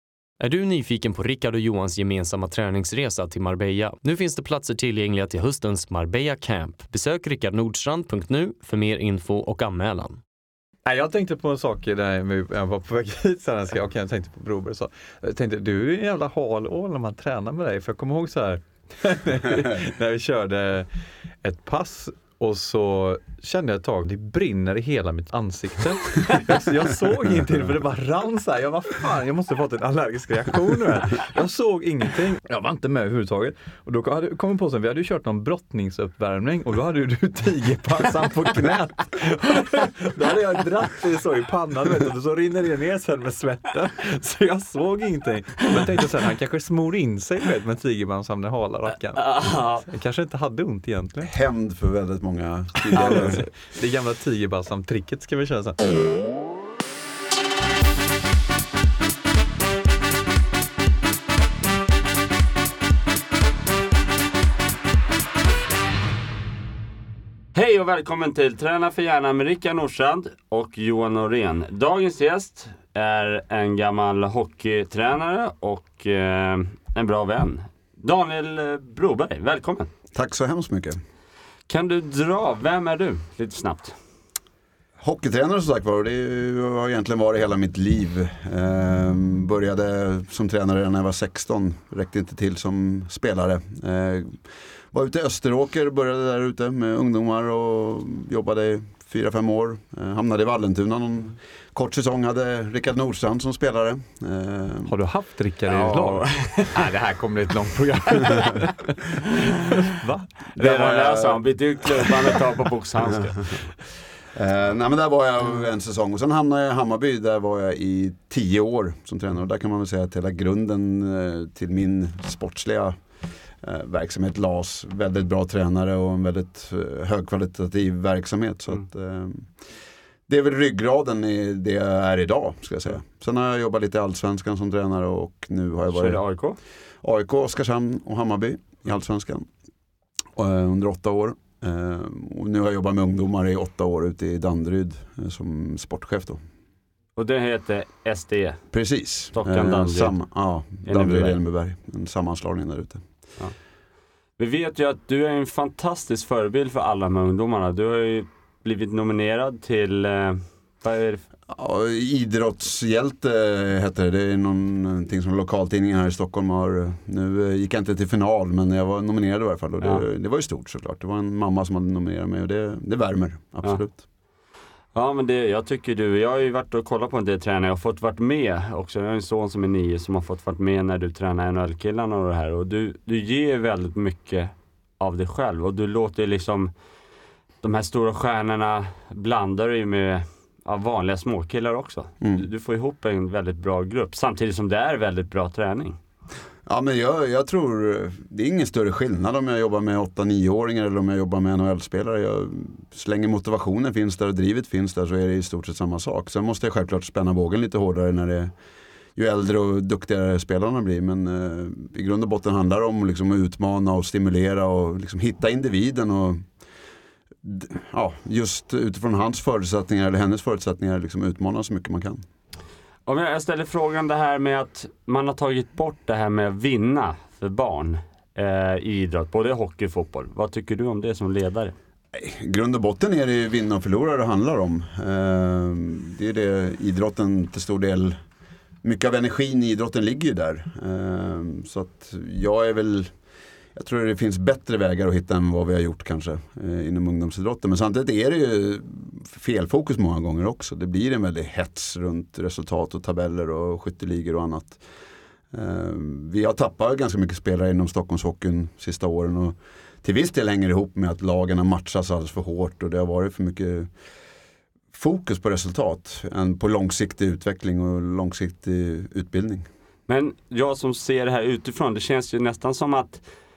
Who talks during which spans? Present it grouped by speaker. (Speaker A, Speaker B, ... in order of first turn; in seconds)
Speaker A: 0.4-10.2
Speaker B: 10.8-20.9, 21.4-51.3, 52.9-55.8, 104.9-109.0, 109.8-111.2
Speaker C: 49.2-49.8, 67.5-79.9, 81.7-84.0, 105.7-106.9, 108.2-108.5, 110.5-113.7, 135.9-136.6, 147.2-148.6, 149.3-150.1, 150.8-151.4, 154.4-161.2, 174.9-186.7, 187.6-196.0, 223.1-231.7, 270.1-273.2
Speaker D: 51.2-53.5, 80.1-81.0, 85.0-104.9, 110.9-111.4, 113.0-113.5, 114.3-123.0, 123.6-129.7, 130.3-136.2, 137.0-139.5, 140.3-146.4, 148.7-153.1, 161.5-174.0, 196.7-208.5, 209.2-216.4, 217.4-222.2, 232.1-238.2, 238.8-243.1, 243.7-254.8, 255.5-263.9, 264.9-269.7